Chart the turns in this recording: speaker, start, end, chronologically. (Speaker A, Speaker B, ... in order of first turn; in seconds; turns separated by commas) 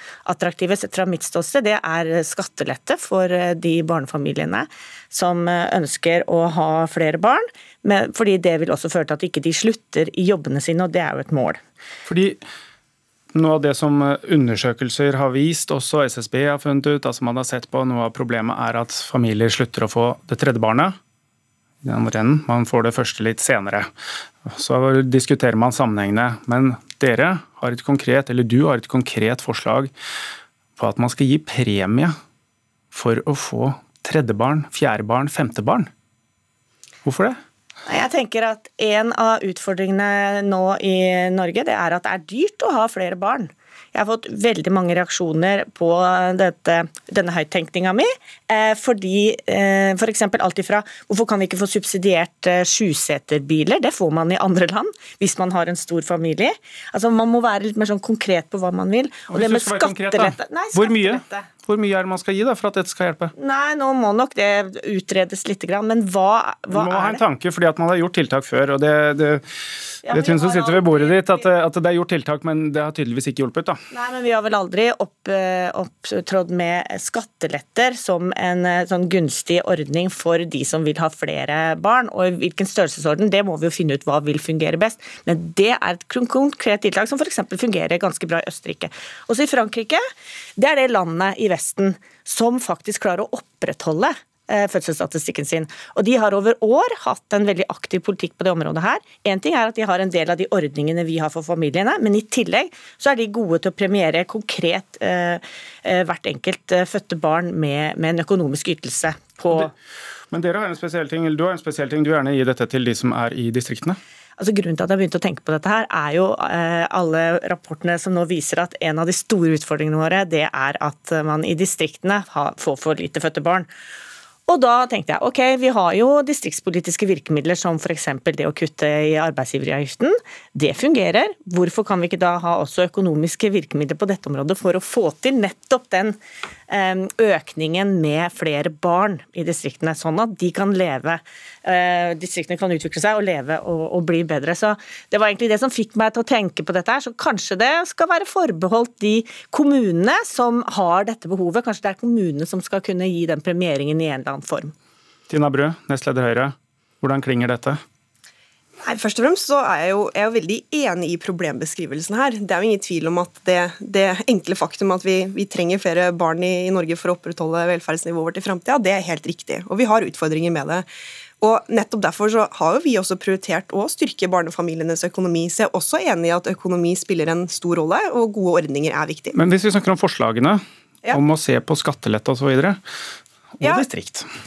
Speaker A: 0.2-11.6, Speaker B: 12.1-12.4, Speaker B: 13.3-20.9, Speaker B: 21.8-23.9, Speaker B: 24.4-29.9, Speaker B: 30.8-32.1, Speaker B: 32.9-35.9, Speaker B: 37.0-37.4, Speaker A: 37.9-61.5, Speaker B: 59.3-63.3, Speaker A: 63.4-67.2, Speaker B: 66.7-69.4, Speaker A: 70.0-71.5, Speaker B: 70.1-73.8, Speaker A: 73.9-90.0, Speaker A: 90.6-109.7, Speaker B: 110.3-114.0, Speaker A: 114.4-123.7, Speaker A: 124.5-136.2, Speaker A: 136.7-154.7, Speaker B: 155.3-157.8, Speaker C: 158.8-170.8, Speaker C: 171.4-179.3, Speaker B: 179.3-182.8, Speaker B: 183.6-184.3, Speaker C: 183.6-183.8